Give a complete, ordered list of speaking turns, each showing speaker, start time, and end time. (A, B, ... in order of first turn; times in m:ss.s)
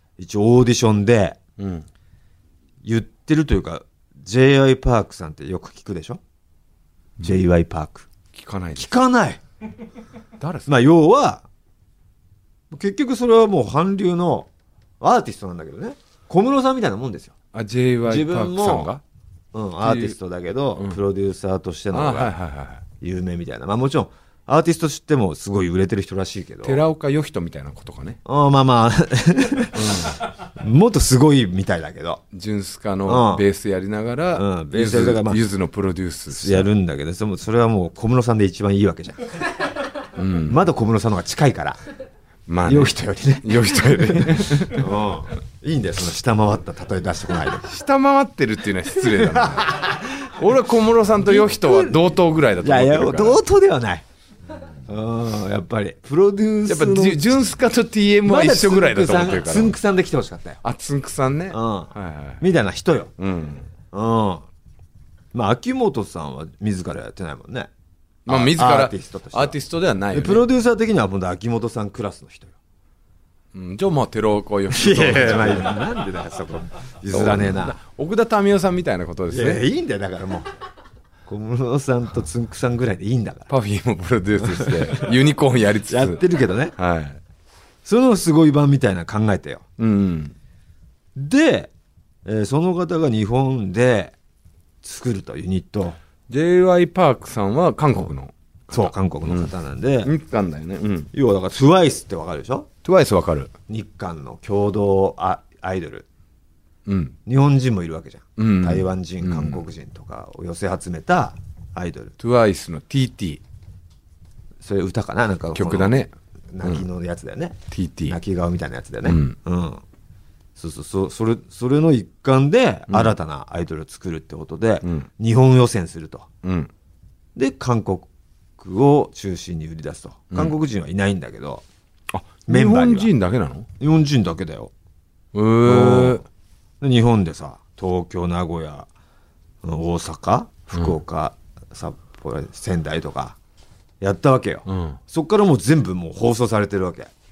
0:00.2-0:01.4 A
0:01.6-0:01.9 B
0:02.8-0:06.2 A
0:07.2-0:08.1 A
0:08.3-0:08.9 B
0:08.8-0:09.4 A
0:10.4-0:10.7 B
0:10.7-0:11.4 A
0:12.7-0:14.5 A
0:15.0-0:17.3 A
0:17.5-0:19.0 B
0:18.0-0:18.9 A
0:19.5-0:22.3 A
0:19.8-0:20.2 B
0:20.7-0:21.0 B
0:21.9-0:22.8 B
0:23.0-0:26.8 A
0:26.6-0:28.2 B
0:28.2-0:32.2 A
0:29.7-0:30.2 B
0:32.3-0:36.7 B
0:33.0-0:33.4 A
0:34.3-0:35.4 A
0:36.3-0:39.3 A
0:40.1-0:40.6 B
0:40.5-0:41.8 A
0:42.5-0:45.0 B
0:42.6-0:47.7 A
0:47.6-0:53.4 B
0:49.1-0:50.4 A
0:51.2-0:54.0 A
0:54.9-0:57.3 A
0:56.6-0:59.8 B
0:58.2-1:00.6 A
1:00.6-1:02.4 B
1:01.5-1:03.1 A
1:03.2-1:03.7 B
1:03.9-1:04.4 A
1:05.3-1:07.7 A
1:08.2-1:10.4 B
1:08.3-1:09.6 A
1:10.1-1:12.5 A
1:13.5-1:15.9 B
1:14.7-1:17.8 A
1:17.1-1:19.6 B
1:19.3-1:20.5 A
1:21.3-1:23.5 A
1:23.5-1:27.2 B
1:24.4-1:25.1 A
1:25.9-1:26.7 A
1:27.8-1:29.6 A
1:29.8-1:30.3 B
1:31.2-1:31.7 A
1:32.2-1:34.1 A
1:34.8-1:36.0 A
1:36.3-1:39.5 B
1:38.7-1:40.1 A
1:40.0-1:41.1 B
1:41.1-1:42.7 A
1:42.8-1:43.5 B
1:43.7-1:46.0 A
1:46.8-1:47.2 B
1:47.2-1:52.1 A
1:48.4-1:49.6 B
1:52.2-1:53.4 B
1:54.6-1:56.0 A
1:55.5-1:56.1 B
1:56.5-1:59.8 A
1:57.7-1:58.2 B
1:59.0-1:59.3 B
2:00.6-2:06.3 A
2:02.9-2:03.1 B
2:06.4-2:06.7 B
2:07.4-2:11.6 A
2:12.1-2:13.7 B
2:12.5-2:13.1 A
2:13.8-2:14.7 A
2:15.3-2:16.2 B
2:15.6-2:16.2 A
2:16.8-2:18.9 A
2:19.6-2:23.4 A
2:24.0-2:27.1 A
2:24.6-2:25.0 B